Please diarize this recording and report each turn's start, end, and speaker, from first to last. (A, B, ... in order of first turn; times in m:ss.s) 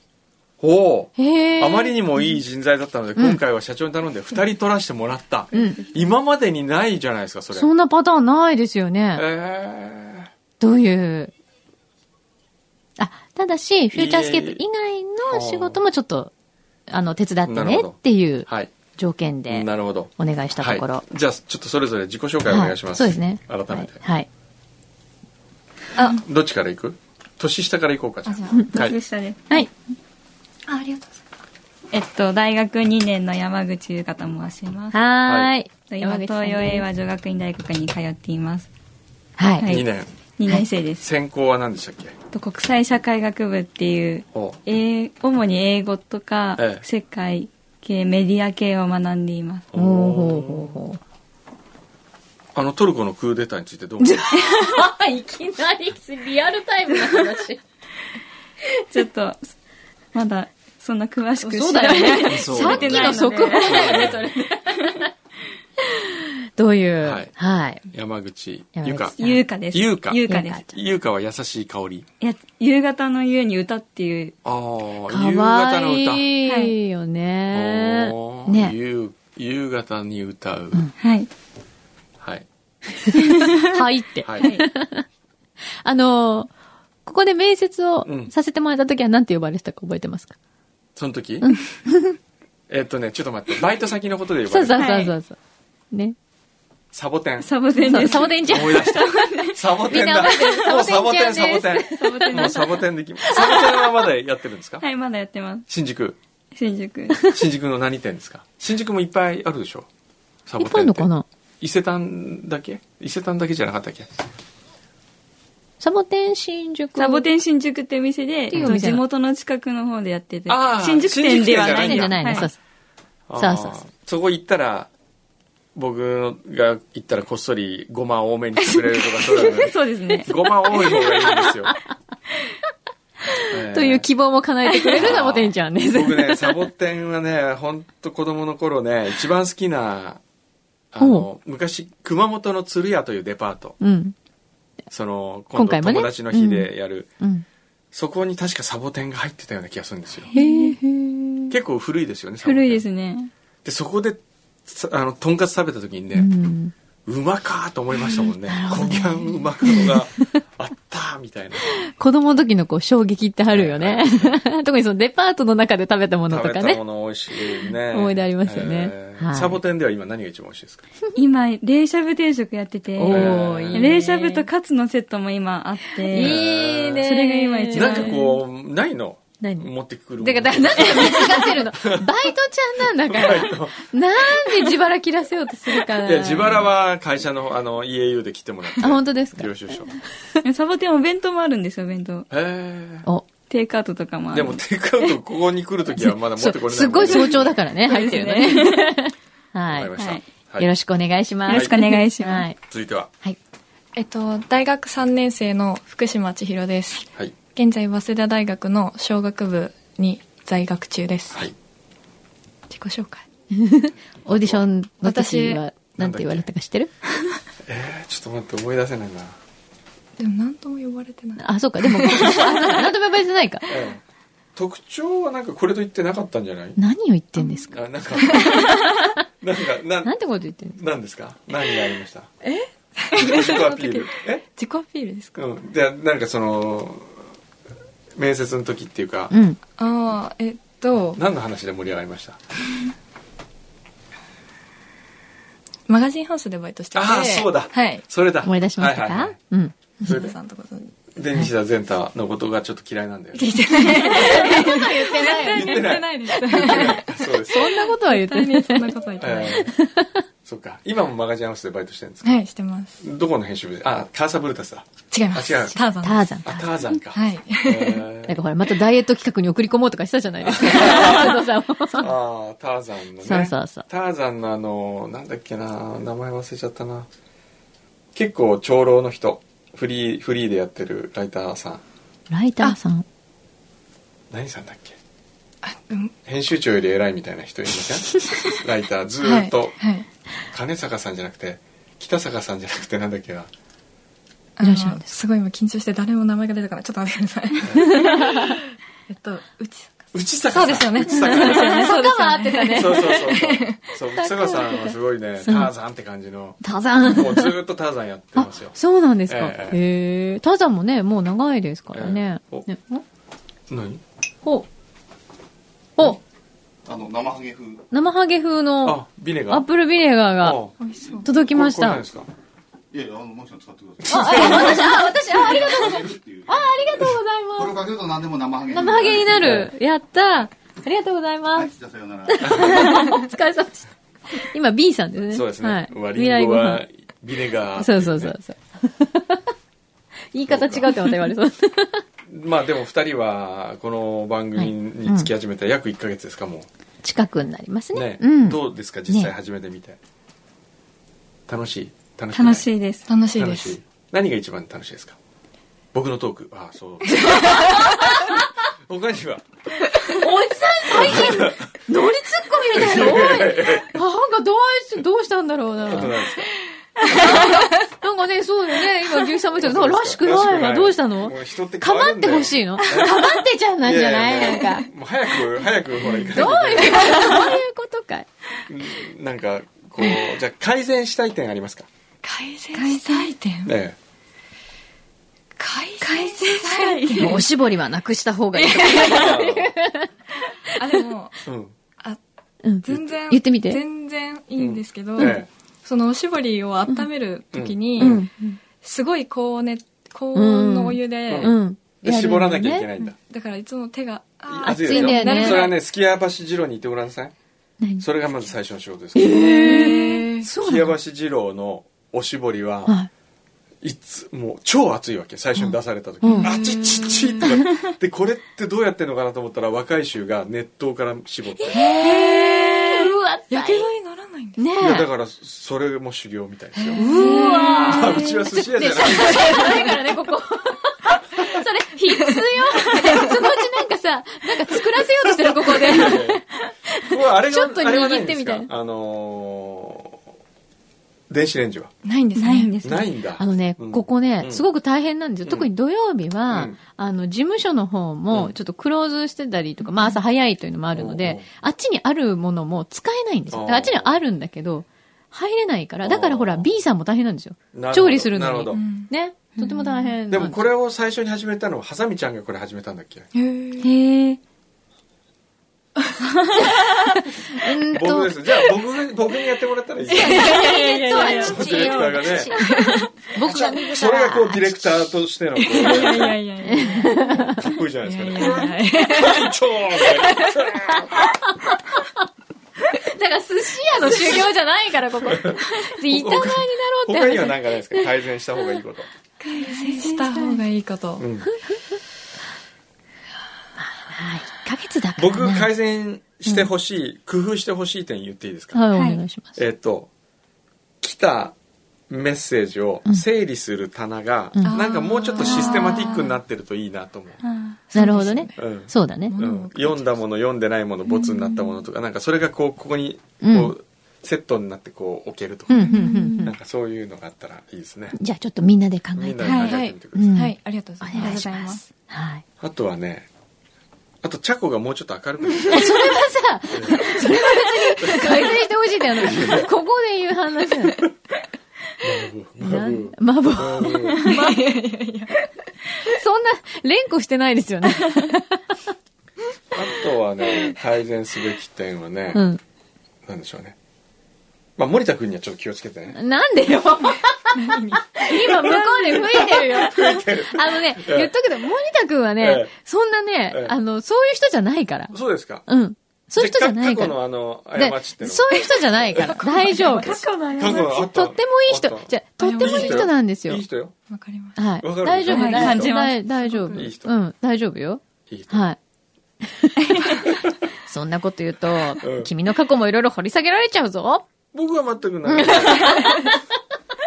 0:00.6-0:07.7 A
0:01.2-0:02.4 B
0:05.5-0:05.8 B
0:07.5-0:09.2 B
0:09.1-0:10.3 A
0:10.6-0:11.3 B
0:13.0-0:16.3 B
0:13.9-0:14.6 A
0:15.3-0:15.8 A
0:16.9-0:21.0 B
0:17.4-0:18.7 A
0:19.5-0:24.0 A
0:22.5-0:24.3 B
0:26.0-0:26.2 C
0:26.0-0:29.0 A
0:28.2-0:28.6 C
0:28.7-0:29.6 D
0:30.7-0:31.2 C
0:31.9-0:35.0 D
0:34.9-0:36.9 B
0:35.2-0:35.5 A
0:35.9-0:38.7 D
0:39.4-0:39.7 B
0:39.6-0:39.8 D
0:39.7-0:40.1 A
0:40.4-0:41.1 D
0:41.0-0:42.2 A
0:42.3-0:49.7 D
0:44.3-0:44.6 A
0:46.6-0:46.8 A
0:49.7-0:50.8 A
0:49.7-0:51.0 B
0:52.5-0:54.3 A
0:54.2-0:57.6 B
0:54.3-0:54.7 D
0:58.9-0:59.5 D
1:00.1-1:04.1 D
1:01.4-1:05.1 B
1:02.2-1:04.2 A
1:06.0-1:07.8 B
1:07.0-1:07.3 A
1:07.9-1:09.2 A
1:08.8-1:09.4 B
1:09.2-1:10.7 D
1:09.7-1:12.1 A
1:10.3-1:10.6 B
1:12.2-1:14.3 D
1:14.4-1:16.3 A
1:15.1-1:18.7 B
1:16.4-1:16.7 D
1:17.5-1:20.9 A
1:21.0-1:21.3 D
1:22.2-1:22.4 A
1:23.0-1:25.0 B
1:23.2-1:23.6 D
1:24.2-1:24.5 A
1:24.4-1:24.7 D
1:25.8-1:26.5 B
1:27.0-1:30.3 B
1:28.0-1:28.3 A
1:31.0-1:31.5 A
1:31.4-1:32.2 B
1:32.7-1:34.9 A
1:34.5-1:35.4 B
1:34.8-1:35.1 D
1:36.9-1:44.8 A
1:37.4-1:39.6 D
1:37.8-1:39.0 B
1:39.8-1:42.6 B
1:40.2-1:40.5 D
1:42.0-1:42.8 D
1:43.3-1:43.5 B
1:44.8-1:45.7 D
1:45.7-1:46.2 A
1:46.5-1:47.3 D
1:47.2-1:49.9 A
1:50.5-1:51.1 A
1:50.6-1:51.2 B
1:51.6-1:54.1 A
1:55.8-1:57.3 B
1:57.0-2:02.5 D
1:58.5-1:59.0 B
2:00.5-2:02.5 A
2:01.7-2:02.6 B
2:03.3-2:04.9 A
2:03.3-2:03.8 B
2:05.7-2:11.7 A
2:08.6-2:11.0 D
2:13.3-2:16.7 B
2:13.5-2:14.1 A
2:14.9-2:20.2 A
2:20.9-2:23.8 A
2:21.0-2:21.2 B
2:23.8-2:24.1 B
2:24.9-2:27.1 A
2:25.5-2:27.4 B
2:27.9-2:30.3 A
2:30.3-2:30.8 D
2:30.3-2:31.5 B
2:31.5-2:32.8 A
2:32.4-2:33.3 D
2:33.6-2:36.3 A
2:36.1-2:36.7 B
2:37.0-2:41.7 A
2:38.4-2:40.0 B
2:41.6-2:46.8 B
2:43.5-2:44.4 A
2:46.3-2:50.9 A
2:47.5-2:49.6 B
2:51.1-2:56.4 D
2:53.0-2:54.4 B
2:53.1-2:54.0 A
2:56.0-2:58.4 B
2:56.1-2:57.0 A
2:57.0-2:58.2 D
2:57.7-3:02.1 A
2:59.4-3:06.7 B
3:03.0-3:03.8 A
3:06.0-3:09.9 A
3:08.8-3:10.0 B
3:10.4-3:12.3 D
3:12.3-3:13.1 A
3:13.5-3:14.6 D
3:14.3-3:17.5 A
3:16.0-3:19.9 B
3:17.1-3:19.0 D
3:19.7-3:20.7 A
3:20.0-3:20.2 D
3:20.6-3:22.6 B
3:21.5-3:22.5 D
3:21.5-3:21.8 A
3:22.7-3:23.1 A
3:24.0-3:31.4 C
3:32.7-3:33.2 C
3:33.5-3:36.9 B
3:34.2-3:34.7 A
3:35.0-3:35.6 C
3:36.0-3:36.5 A
3:37.6-3:39.4 A
3:40.2-3:42.9 C
3:41.4-3:43.7 B
3:43.7-3:44.0 A
3:44.6-3:46.8 A
3:46.8-3:49.1 B
3:47.7-3:48.6 A
3:48.2-3:48.6 C
3:49.4-3:50.2 A
3:50.0-3:50.8 B
3:50.7-3:52.3 A
3:52.4-3:55.4 C
3:53.1-3:54.4 A
3:55.4-3:57.2 A
3:58.1-3:59.3 A
3:59.3-3:59.6 B
3:59.8-4:01.2 C
4:01.2-4:02.4 A
4:05.9-4:08.0 C
4:06.9-4:09.4 A
4:08.4-4:09.7 B
4:10.0-4:10.9 C
4:10.0-4:10.3 A
4:11.1-4:14.4 A
4:13.4-4:19.7 C
4:14.0-4:15.9 B
4:15.4-4:17.9 A
4:17.4-4:19.0 B
4:19.2-4:19.7 A
4:19.5-4:20.2 B
4:20.4-4:22.4 A
4:22.2-4:23.0 C
4:23.0-4:25.8 A
4:25.1-4:26.6 C
4:26.0-4:26.6 B
4:26.4-4:28.4 A
4:27.1-4:28.1 C
4:28.3-4:32.1 B
4:30.4-4:37.1 A
4:33.2-4:33.8 B
4:38.1-4:41.8 A
4:42.3-4:43.0 B
4:44.3-4:45.0 A
4:45.6-4:46.1 C
4:46.2-4:49.8 A
4:49.2-4:50.0 C
4:50.5-4:53.5 A
4:54.6-4:58.6 C
4:54.6-4:55.1 B
4:57.6-4:58.0 A
4:57.8-4:58.6 B
4:59.1-5:03.8 C
5:00.1-5:01.9 A
5:01.1-5:03.1 B
5:02.7-5:08.8 A
5:04.1-5:05.7 B
5:06.6-5:07.5 B
5:08.3-5:13.0 B
5:09.3-5:09.8 A
5:11.9-5:12.7 A
5:13.7-5:14.0 A
5:16.9-5:17.8 E
5:17.9-5:20.6 B
5:18.8-5:19.6 A
5:20.4-5:20.7 A
5:20.8-5:21.3 C
5:21.2-5:22.0 B
5:21.3-5:22.3 A
5:22.9-5:26.4 E
5:24.0-5:24.9 A
5:24.1-5:27.9 B
5:27.6-5:29.1 E
5:28.7-5:36.8 B
5:28.8-5:29.7 A
5:31.7-5:32.4 E
5:32.4-5:33.2 A
5:35.3-5:38.3 A
5:37.8-5:39.4 B
5:40.3-5:42.0 B
5:40.5-5:41.1 A
5:42.3-5:46.7 A
5:44.6-5:45.3 B
5:47.0-5:49.3 B
5:47.9-5:50.0 A
5:51.5-5:52.7 A
5:52.3-5:53.1 D
5:53.1-5:53.7 C
5:53.4-5:55.2 A
5:55.9-5:59.4 A
6:00.2-6:06.2 B
6:00.8-6:01.7 A
6:02.7-6:04.0 A
6:05.8-6:06.5 A
6:07.1-6:14.9 B
6:09.6-6:17.4 A
6:16.3-6:18.3 B
6:18.7-6:21.9 A
6:22.2-6:23.7 C
6:22.7-6:23.3 D
6:23.6-6:24.0 A
6:25.6-6:27.4 C
6:26.0-6:27.4 D
6:27.2-6:30.9 B
6:28.6-6:29.3 C
6:29.0-6:29.7 A
6:30.8-6:31.4 C
6:31.4-6:31.7 A
6:32.6-6:33.8 B
6:32.8-6:38.2 C
6:34.6-6:35.5 A
6:37.5-6:38.2 A
6:38.0-6:38.6 B
6:38.8-6:41.5 C
6:40.3-6:43.0 B
6:41.3-6:43.2 A
6:43.3-6:45.8 C
6:44.5-6:47.3 A
6:44.6-6:45.7 B
6:48.0-6:49.6 A
6:49.1-6:50.9 B
6:49.3-6:50.4 C
6:50.6-6:53.0 A
6:53.8-7:01.8 A
6:56.2-6:56.5 B
6:56.3-6:57.6 C
7:01.6-7:03.9 B
7:01.8-7:04.6 C
7:04.6-7:05.1 B
7:04.8-7:07.0 A
7:06.7-7:08.2 C
7:06.9-7:18.7 B
7:07.2-7:08.0 D
7:07.9-7:09.7 A
7:09.1-7:10.0 C
7:13.0-7:13.4 C
7:15.2-7:16.4 A
7:17.0-7:20.2 A
7:21.3-7:21.9 A
7:22.0-7:22.7 C
7:22.4-7:23.1 D
7:22.8-7:24.6 A
7:23.4-7:40.6 B
7:26.5-7:26.8 A
7:30.9-7:31.5 A
7:33.5-7:34.2 A
7:36.0-7:36.7 A
7:37.7-7:38.8 A
7:38.7-7:39.1 C
7:40.3-7:43.3 A
7:43.3-7:43.9 C
7:43.8-7:44.4 D
7:47.0-7:48.4 B
7:47.9-7:50.6 A
7:50.1-7:53.1 C
7:50.2-7:54.8 B
7:50.7-7:51.6 D
7:51.2-7:52.5 A
7:53.4-7:56.4 A
7:55.6-7:57.4 C
7:56.6-7:57.6 B
7:57.2-8:01.4 A
7:58.0-8:00.6 C
8:01.0-8:02.0 B
8:02.9-8:08.0 B
8:04.0-8:04.4 A
8:05.2-8:09.1 A
8:09.4-8:10.2 D
8:09.6-8:11.2 C
8:09.6-8:10.6 B
8:11.2-8:11.5 A
8:11.6-8:12.0 B
8:13.8-8:15.7 B
8:15.2-8:18.8 A
8:18.7-8:19.6 B
8:18.9-8:19.2 D
8:19.5-8:20.1 A
8:21.0-8:21.5 A
8:22.1-8:27.4 A
8:24.5-8:24.8 B
8:24.6-8:26.4 C
8:25.4-8:26.1 D
8:27.4-8:27.8 D
8:27.9-8:28.6 C
8:27.9-8:29.4 B
8:28.6-8:38.2 A
8:29.3-8:30.2 C
8:33.4-8:33.7 B
8:35.7-8:36.5 B
8:35.9-8:36.2 C
8:35.9-8:36.5 D
8:38.1-8:42.4 B
8:39.2-8:40.4 A
8:39.4-8:39.7 D
8:39.6-8:41.8 C
8:41.1-8:41.8 D
8:42.6-8:43.3 A
8:44.2-8:46.1 A
8:45.7-8:51.0 B
8:46.7-8:47.4 A
8:48.0-8:48.5 A
8:48.0-8:48.5 C
8:49.2-8:49.7 A
8:52.0-8:54.2 A
8:52.6-8:54.3 B
8:54.2-8:55.3 C
8:56.0-8:58.6 B
8:59.7-9:02.4 A
9:02.3-9:02.6 B
9:03.2-9:03.8 A
9:04.8-9:06.2 A
9:06.1-9:15.1 B
9:07.5-9:08.1 C
9:09.2-9:11.3 A
9:12.4-9:12.7 A
9:13.5-9:13.7 A
9:15.1-9:15.6 A
9:15.6-9:17.2 B
9:16.4-9:23.9 A
9:17.7-9:23.6 B
9:19.2-9:20.9 C
9:20.0-9:20.8 D
9:22.4-9:23.1 C
9:24.1-9:24.6 C
9:24.6-9:28.8 B
9:24.8-9:25.9 A
9:25.3-9:26.2 D
9:25.4-9:26.9 C
9:26.7-9:27.1 A
9:28.3-9:28.7 A
9:29.4-9:30.2 B
9:30.3-9:30.5 A
9:30.8-9:34.2 B
9:32.0-9:32.3 A
9:34.5-9:36.3 A
9:35.2-9:36.4 B